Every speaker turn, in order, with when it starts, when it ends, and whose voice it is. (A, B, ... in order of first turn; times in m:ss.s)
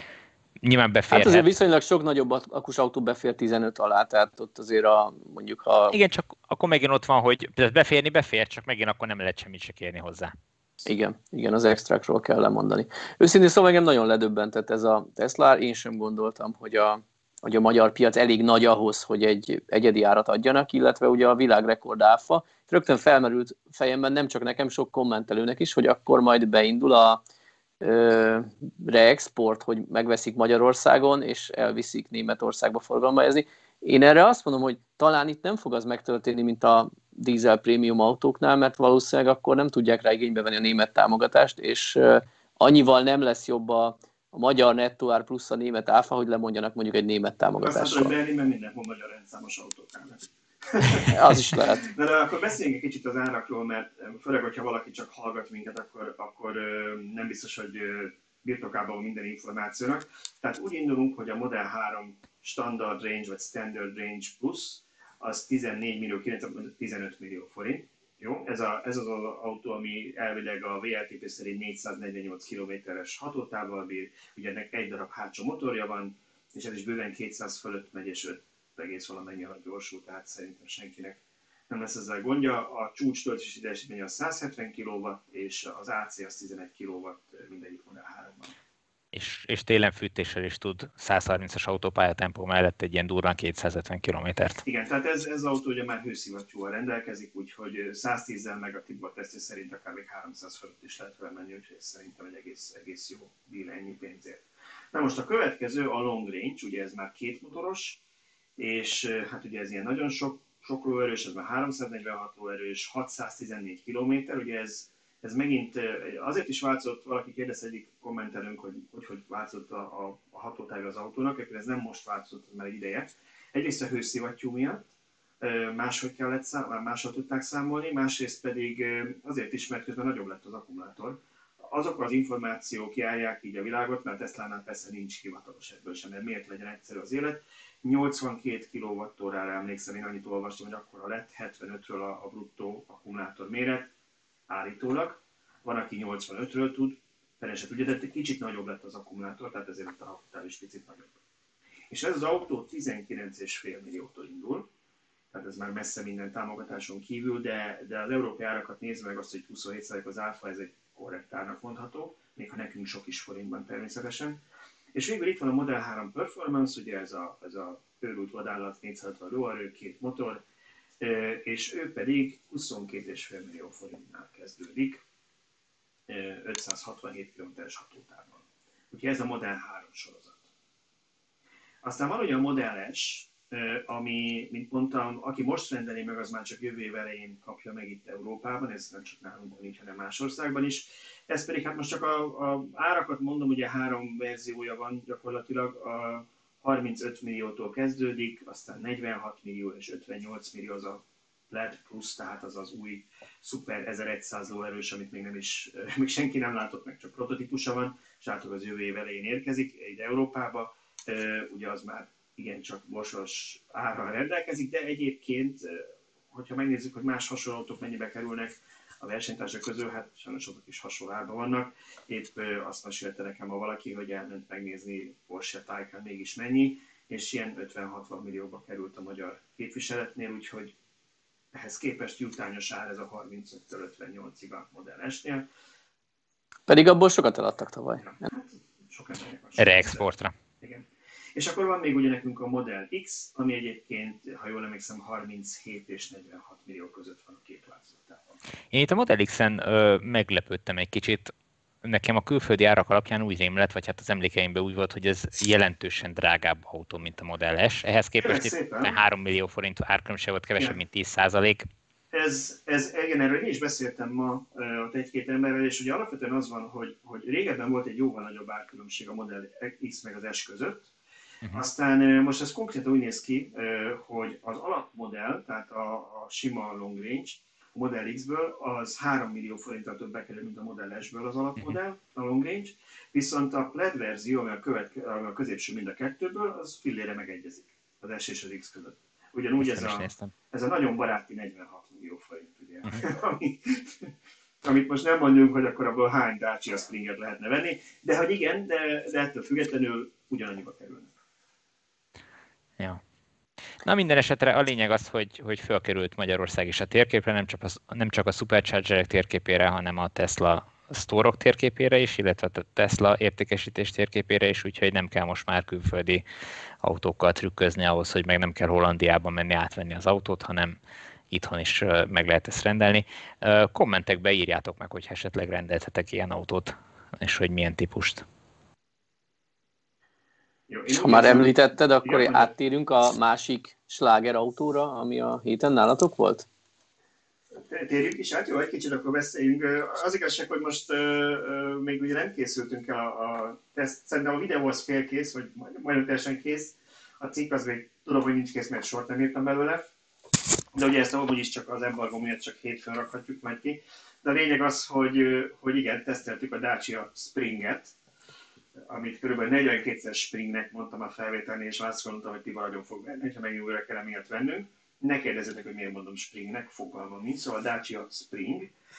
0:00.6-0:01.5 A
0:01.1-0:06.0 B
0:05.9-0:10.3 A
0:10.8-0:27.2 B
0:27.8-0:48.1 B
0:47.6-1:28.5 C
0:51.0-0:51.9 B
1:29.1-1:34.6 A
1:34.6-1:48.0 C
1:48.6-2:04.9 C
2:05.4-2:23.9 C
2:24.5-2:31.2 C
2:31.9-2:34.7 C
2:35.3-2:44.4 C
2:44.9-2:50.4 C
2:51.0-2:55.0 C
2:56.1-3:00.5 C
3:01.8-3:50.7 C
3:51.5-3:55.5 C
3:56.7-3:58.1 B
3:58.0-4:08.3 C
3:59.6-4:00.3 A
4:08.7-4:11.3 A
4:11.8-4:21.6 A
4:18.2-4:19.0 C
4:22.1-4:30.9 C
4:31.5-5:01.1 C
4:49.6-4:50.3 A
5:03.8-5:16.2 A
5:16.8-5:20.8 A
5:21.3-5:28.2 A
5:30.7-5:32.5 C
5:30.9-5:36.5 B
5:37.6-5:49.8 C
5:50.7-5:57.9 C
5:58.8-6:08.7 C